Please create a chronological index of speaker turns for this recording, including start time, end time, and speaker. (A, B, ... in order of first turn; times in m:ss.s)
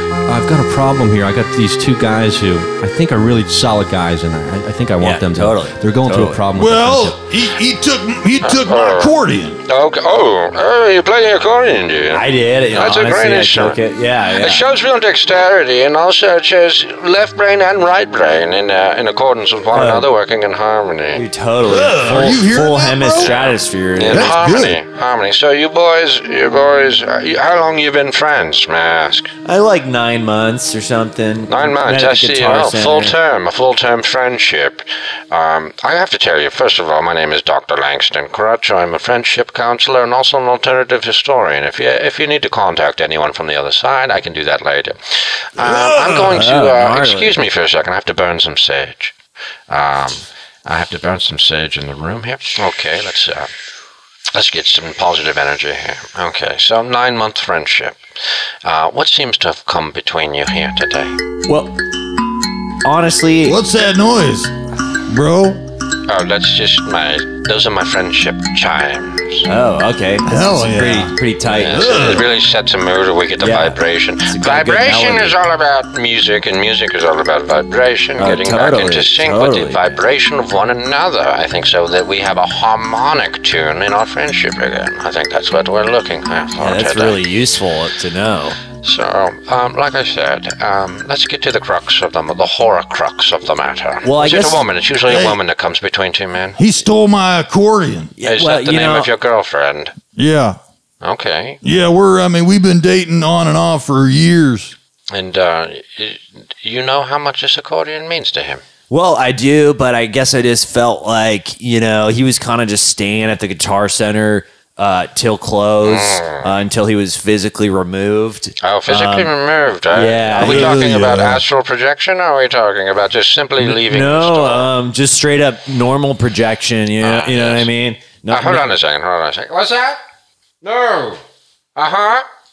0:00.3-0:07.2 A
0:05.0-0:06.4 B
0:06.5-0:09.6 C
0:08.4-0:09.1 D
0:09.7-0:13.8 D
0:12.1-0:14.6 B
0:14.3-0:21.2 D
0:19.7-0:20.1 B
0:21.1-0:24.4 B
0:21.6-0:23.3 C
0:23.1-0:29.3 D
0:24.1-0:24.8 C
0:29.4-0:33.1 B
0:31.5-0:49.1 D
0:45.6-0:46.4 C
0:46.1-0:47.4 B
0:49.7-0:53.5 D
0:54.3-0:58.0 D
0:58.6-1:01.1 D
1:01.5-1:01.7 B
1:02.8-1:03.6 B
1:03.4-1:04.5 C
1:05.1-1:05.6 C
1:06.1-1:09.4 D
1:09.4-1:11.9 B
1:10.2-1:12.3 C
1:11.4-1:27.2 D
1:13.4-1:15.4 B
1:18.2-1:19.9 B
1:26.6-1:28.6 B
1:28.8-1:36.6 D
1:34.0-1:34.6 B
1:35.0-1:35.4 C
1:36.6-1:38.1 C
1:38.2-1:39.1 B
1:38.2-1:40.0 D
1:40.1-1:40.6 C
1:41.0-1:41.6 D
1:41.6-1:44.7 C
1:45.1-1:48.6 D
1:48.9-1:59.3 B
1:55.8-1:56.5 D
1:58.6-2:04.7 D
1:59.9-2:00.9 B
2:00.4-2:01.4 C
2:03.6-2:08.7 B
2:07.0-2:07.7 D
2:08.3-2:10.0 D
2:10.6-2:11.2 D
2:11.8-2:12.2 D